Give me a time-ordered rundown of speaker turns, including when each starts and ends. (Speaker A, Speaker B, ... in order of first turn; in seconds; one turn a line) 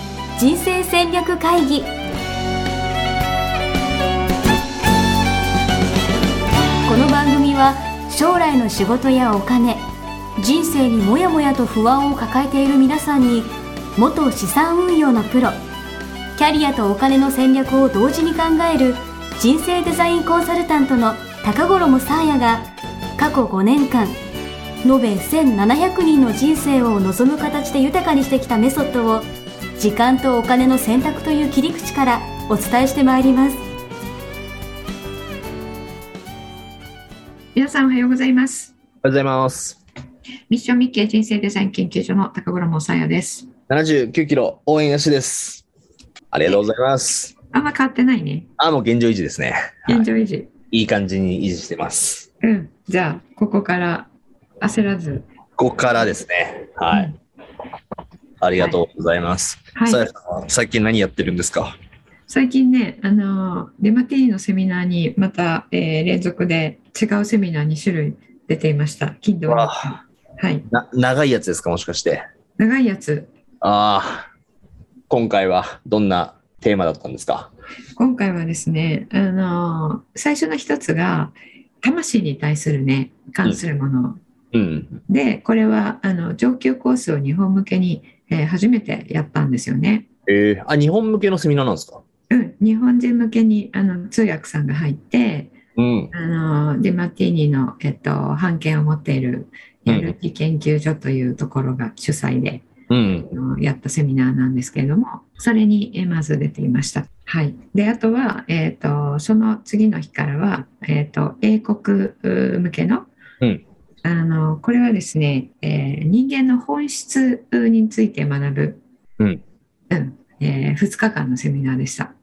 Speaker A: 0.4-1.9
Speaker A: 6.9-9.8
Speaker A: 10.4-15.6
Speaker A: 16.4-24.2
Speaker A: 24.8-33.6
Speaker B: 37.5-38.8
Speaker C: 39.0-39.8
Speaker B: 40.5-43.5
Speaker C: 43.7-45.6
Speaker C: 46.3-47.3
Speaker B: 47.5-48.5
Speaker C: 48.6-50.1
Speaker B: 49.9-50.5
Speaker C: 50.7-52.3
Speaker B: 52.4-54.1
Speaker B: 54.6-55.3
Speaker C: 55.6-57.1
Speaker B: 56.9-57.2
Speaker C: 58.4-61.8
Speaker B: 59.8-60.0
Speaker B: 62.3-70.7
Speaker C: 69.5-70.0
Speaker C: 70.7-72.2
Speaker B: 72.6-73.3
Speaker C: 73.6-74.3
Speaker C: 75.1-77.5
Speaker B: 78.0-84.2
Speaker C: 84.5-85.0
Speaker B: 85.1-90.1
Speaker C: 90.3-92.0
Speaker B: 92.3-95.6
Speaker C: 95.8-96.1
Speaker B: 96.1-102.7
Speaker C: 99.9-100.2
Speaker C: 102.9-103.3
Speaker B: 103.3-113.1
Speaker B: 114.0-118.8
Speaker B: 119.9-122.1